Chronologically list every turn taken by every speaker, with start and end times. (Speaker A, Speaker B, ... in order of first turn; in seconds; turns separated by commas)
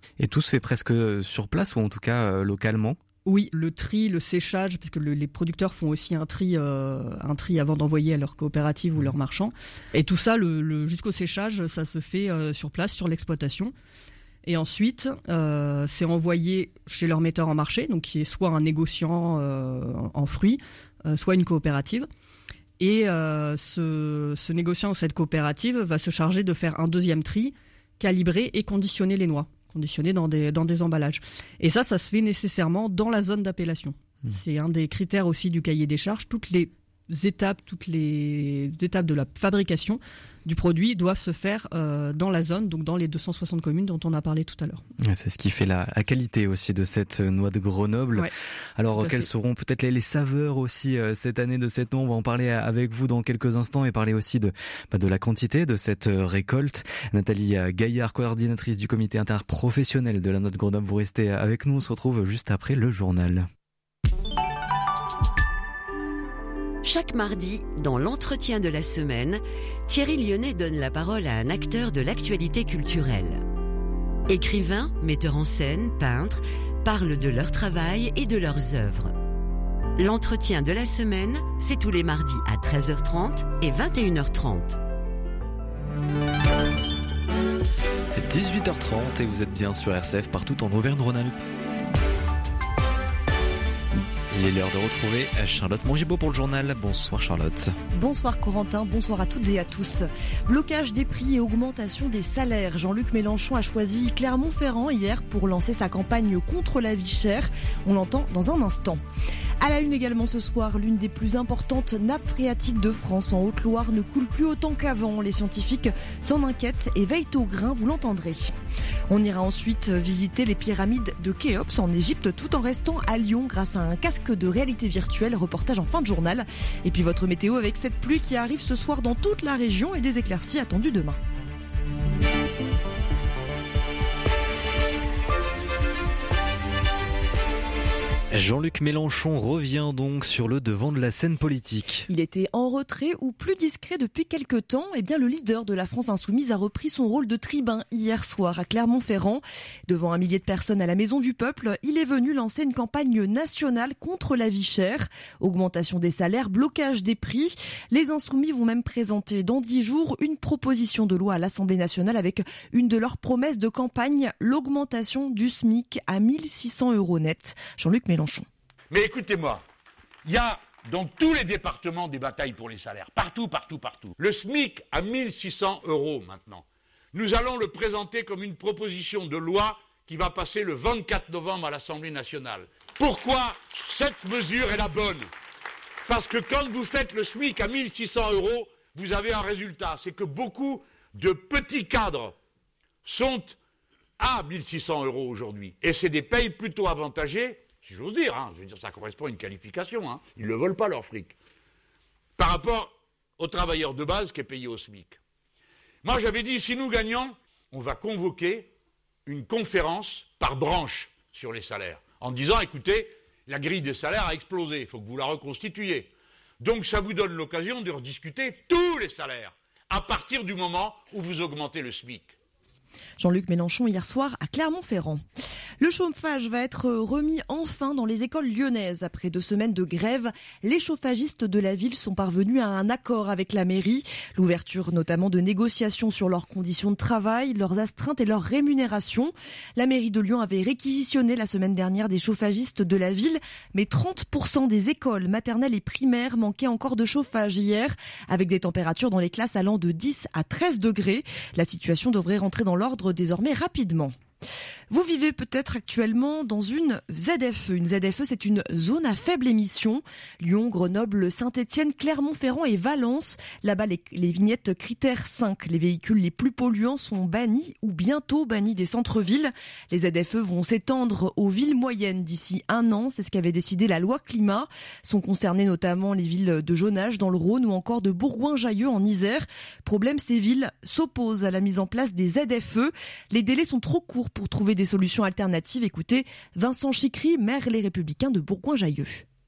Speaker A: 0.2-3.0, Speaker B: 3.2-13.7, Speaker B: 14.4-22.1, Speaker B: 22.8-44.8, Speaker A: 45.0-63.5, Speaker B: 49.0-49.3, Speaker C: 66.8-73.4, Speaker C: 74.3-79.1, Speaker C: 80.0-84.8, Speaker A: 88.2-91.4, Speaker A: 94.3-97.8, Speaker D: 97.9-109.0, Speaker D: 109.6-118.5, Speaker D: 119.1-131.2, Speaker A: 138.3-142.1, Speaker D: 142.1-168.5, Speaker E: 168.9-169.6, Speaker E: 170.2-185.3, Speaker E: 186.0-192.4, Speaker E: 193.0-193.6, Speaker E: 194.2-201.4, Speaker E: 202.4-205.2, Speaker E: 206.0-208.7, Speaker E: 209.3-222.3, Speaker D: 223.2-225.2, Speaker D: 225.8-254.2, Speaker D: 254.9-289.2